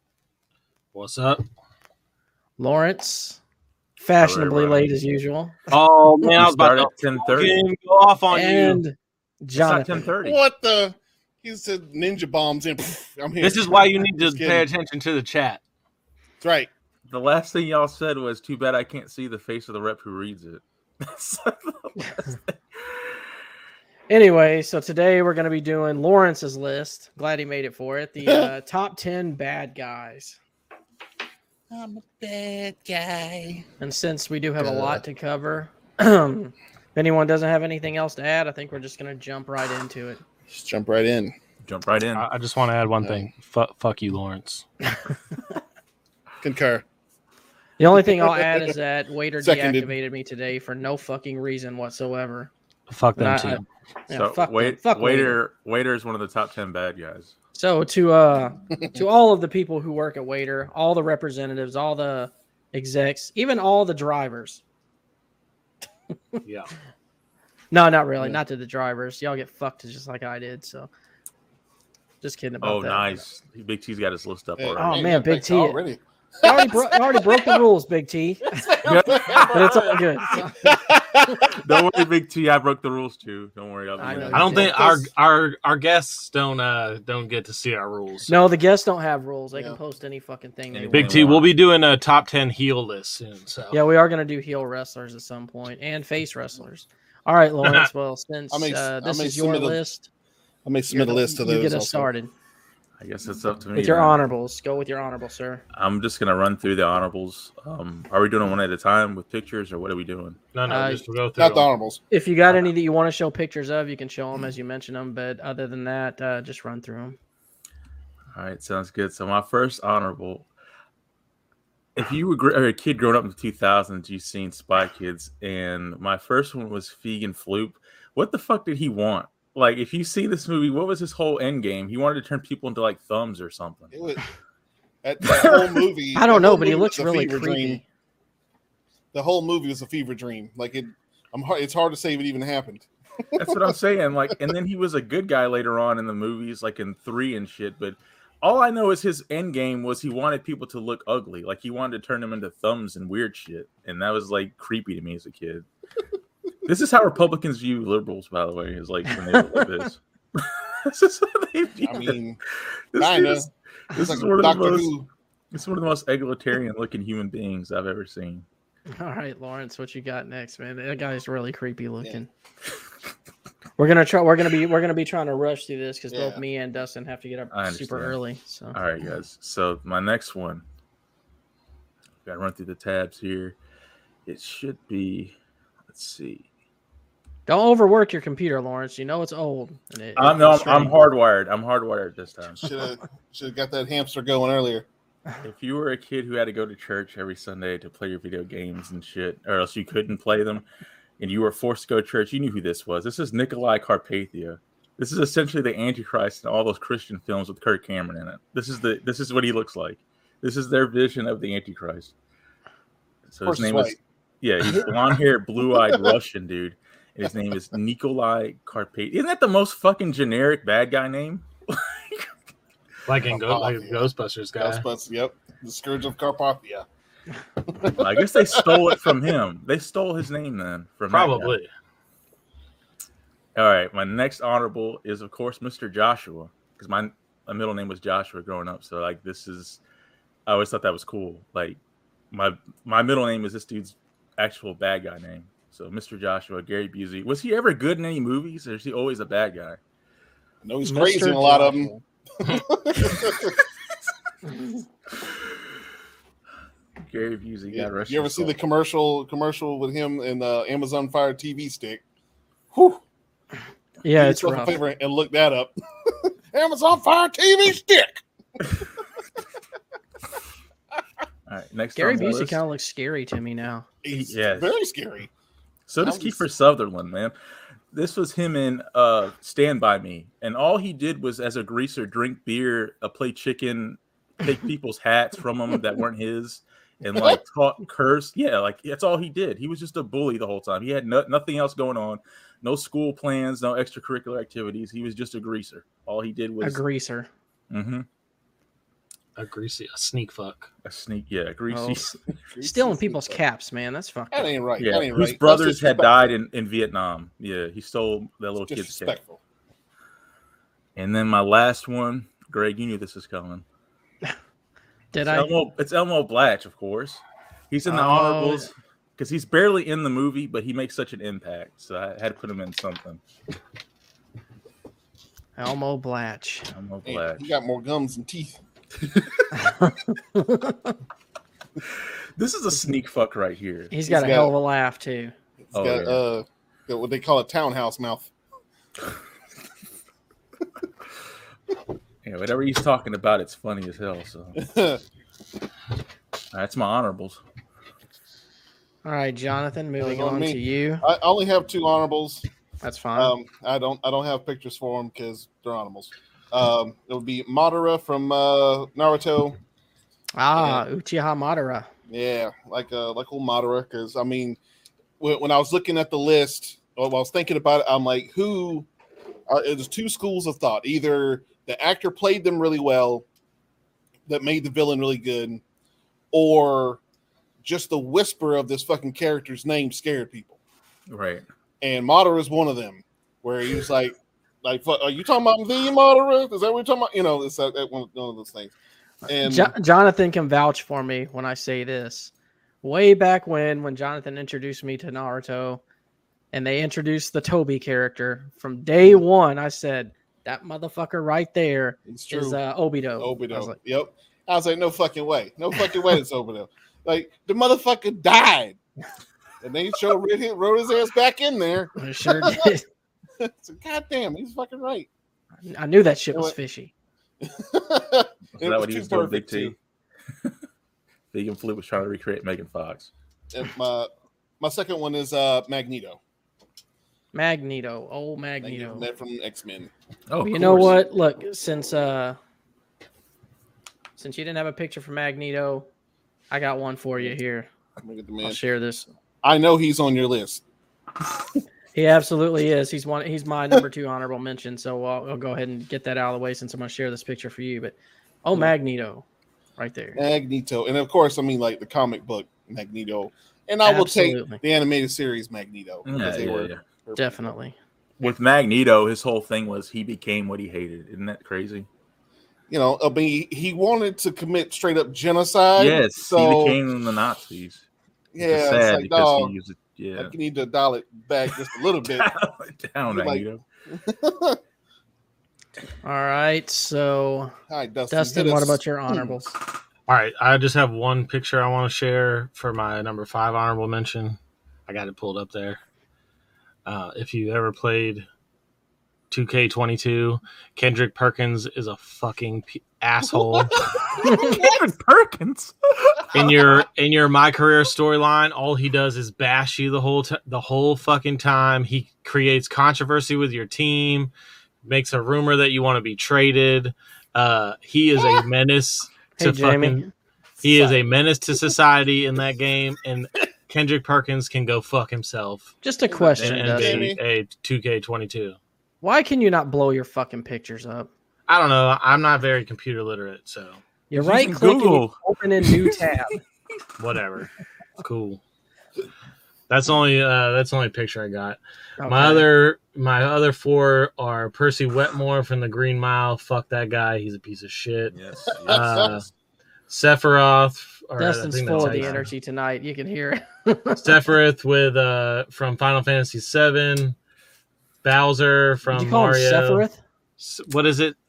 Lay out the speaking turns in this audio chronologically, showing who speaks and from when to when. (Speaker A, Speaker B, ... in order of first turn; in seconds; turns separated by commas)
Speaker A: 0.9-1.4, Speaker B: 2.6-3.4, Speaker B: 4.0-5.6, Speaker C: 4.2-4.9, Speaker A: 5.7-8.8, Speaker C: 6.3-7.6, Speaker B: 8.3-10.1, Speaker C: 9.5-10.4, Speaker D: 10.2-14.7, Speaker A: 13.4-15.6, Speaker D: 16.4-16.7, Speaker C: 17.1-22.6, Speaker B: 24.1-30.4, Speaker D: 28.2-28.5, Speaker C: 31.7-33.6, Speaker B: 33.8-40.2, Speaker D: 34.6-35.0, Speaker D: 40.5-41.3, Speaker C: 41.6-42.3, Speaker A: 42.1-44.6, Speaker D: 43.0-43.3, Speaker D: 46.4-46.8, Speaker B: 47.8-52.5, Speaker D: 48.0-48.8, Speaker D: 49.4-49.9, Speaker A: 52.9-53.6, Speaker B: 53.1-55.4, Speaker C: 54.1-57.3, Speaker B: 57.5-64.6, Speaker D: 58.7-59.0, Speaker B: 67.7-70.9, Speaker B: 72.2-73.2, Speaker C: 72.6-75.0, Speaker D: 74.6-77.6, Speaker B: 74.8-75.8, Speaker B: 76.4-78.7, Speaker D: 78.5-82.0, Speaker C: 78.8-79.8, Speaker B: 79.5-80.7, Speaker C: 81.5-84.7, Speaker B: 84.0-84.9, Speaker D: 84.0-85.0, Speaker A: 84.3-88.4, Speaker B: 88.3-91.3, Speaker C: 90.7-91.5, Speaker A: 90.9-93.8, Speaker B: 93.7-100.1, Speaker D: 98.5-99.8, Speaker D: 100.6-102.1, Speaker B: 100.9-102.3, Speaker C: 103.0-104.2, Speaker B: 103.7-105.6, Speaker C: 105.7-110.4, Speaker A: 110.5-111.7, Speaker B: 110.7-111.0, Speaker D: 111.4-112.0, Speaker B: 112.1-117.2, Speaker C: 118.3-120.5, Speaker C: 121.9-133.9, Speaker D: 133.9-134.2, Speaker D: 135.0-137.8, Speaker C: 135.2-135.7, Speaker B: 136.1-137.8, Speaker D: 139.1-143.7, Speaker C: 143.3-155.7, Speaker C: 156.6-162.2, Speaker D: 161.8-162.4, Speaker C: 162.9-164.9, Speaker D: 162.9-165.1, Speaker C: 165.5-168.4, Speaker B: 168.9-172.3, Speaker B: 173.8-178.8, Speaker D: 176.1-176.4, Speaker C: 177.5-178.2, Speaker C: 178.7-180.6, Speaker C: 182.2-183.6, Speaker C: 184.2-185.3, Speaker C: 185.9-186.4, Speaker B: 187.5-191.0, Speaker C: 190.2-192.7, Speaker D: 192.6-194.9, Speaker C: 195.4-200.7, Speaker C: 201.2-212.1, Speaker C: 213.3-222.3, Speaker D: 213.4-214.0, Speaker D: 215.7-216.1, Speaker A: 223.1-224.8, Speaker D: 223.3-224.1, Speaker D: 224.6-226.8, Speaker D: 227.6-229.2, Speaker C: 227.9-231.6, Speaker A: 231.1-231.7, Speaker C: 233.5-239.8, Speaker C: 240.4-241.8, Speaker C: 242.3-249.8, Speaker D: 250.6-253.6, Speaker B: 250.8-252.0, Speaker B: 254.5-254.8, Speaker C: 257.1-258.6, Speaker D: 257.7-262.0, Speaker D: 262.7-263.0, Speaker B: 264.0-264.8, Speaker D: 264.1-268.2, Speaker C: 271.5-272.6, Speaker B: 271.9-273.9, Speaker D: 274.0-275.3, Speaker C: 274.1-274.7, Speaker C: 275.9-277.3, Speaker D: 276.0-276.4, Speaker C: 277.9-296.8, Speaker B: 296.6-297.3, Speaker C: 297.7-298.1, Speaker A: 299.4-300.7, Speaker C: 300.8-302.1, Speaker B: 301.7-304.5, Speaker D: 302.3-303.4, Speaker D: 304.3-306.3, Speaker C: 304.8-309.2, Speaker D: 308.6-309.4, Speaker C: 310.9-313.6, Speaker B: 315.1-315.5, Speaker C: 315.2-323.2, Speaker B: 317.9-318.7, Speaker B: 325.6-326.7, Speaker C: 326.7-327.5, Speaker D: 327.1-328.6, Speaker B: 329.5-330.9, Speaker C: 331.9-333.9, Speaker B: 333.9-335.3, Speaker D: 334.1-334.5, Speaker D: 335.6-338.3, Speaker C: 335.7-336.2, Speaker C: 342.2-344.6, Speaker D: 344.6-345.0, Speaker C: 346.5-347.4, Speaker B: 349.0-351.0, Speaker D: 350.0-352.4, Speaker B: 352.8-353.3, Speaker D: 353.2-359.6, Speaker B: 360.3-361.9, Speaker D: 360.6-360.8, Speaker D: 362.1-364.6, Speaker D: 365.2-368.9, Speaker D: 369.5-373.2, Speaker D: 374.3-375.6, Speaker D: 376.3-377.0, Speaker D: 377.6-380.6, Speaker C: 381.1-381.4, Speaker D: 381.8-388.7, Speaker D: 389.2-389.7, Speaker B: 389.4-395.8, Speaker B: 396.5-403.8, Speaker D: 402.1-402.6, Speaker D: 403.2-408.8, Speaker D: 409.6-412.7, Speaker B: 412.0-412.8, Speaker D: 413.4-415.1, Speaker B: 415.6-416.9, Speaker D: 417.4-419.8, Speaker C: 418.6-419.7, Speaker C: 421.3-423.1, Speaker D: 423.5-426.2, Speaker B: 427.3-429.1, Speaker D: 428.6-429.9, Speaker C: 430.3-430.9, Speaker B: 430.4-432.4, Speaker D: 430.6-430.9, Speaker B: 434.2-435.9, Speaker B: 436.5-437.7, Speaker D: 438.0-438.6, Speaker B: 438.4-439.1, Speaker D: 439.4-440.6, Speaker B: 441.9-449.2, Speaker B: 449.8-450.2, Speaker D: 450.1-457.4, Speaker B: 453.8-454.6, Speaker C: 456.0-456.8, Speaker B: 457.2-457.8, Speaker C: 458.2-461.9, Speaker D: 462.7-466.8, Speaker C: 465.8-467.8, Speaker D: 468.3-469.5, Speaker C: 468.4-470.3, Speaker D: 470.1-472.3, Speaker C: 472.1-473.6, Speaker D: 473.1-474.6, Speaker B: 476.0-477.5, Speaker D: 477.7-479.5, Speaker B: 478.1-479.5, Speaker A: 480.1-485.8, Speaker A: 486.8-488.2, Speaker A: 489.3-494.0, Speaker C: 494.1-496.7, Speaker B: 494.2-494.6, Speaker A: 496.3-504.3, Speaker A: 504.8-510.1, Speaker B: 509.4-510.1, Speaker D: 510.6-511.0, Speaker A: 510.6-515.7, Speaker B: 515.8-517.1, Speaker D: 516.1-517.2, Speaker A: 516.4-518.6, Speaker B: 519.0-521.1, Speaker A: 521.5-523.8, Speaker B: 524.1-526.4, Speaker C: 524.2-525.9, Speaker A: 527.0-528.4, Speaker A: 529.7-539.2, Speaker B: 532.0-532.5, Speaker C: 538.1-539.3, Speaker D: 538.7-539.2, Speaker A: 539.9-542.3, Speaker B: 541.2-544.1, Speaker C: 541.7-542.2, Speaker A: 544.0-547.1, Speaker A: 548.0-549.8, Speaker B: 548.9-550.0, Speaker A: 550.4-551.1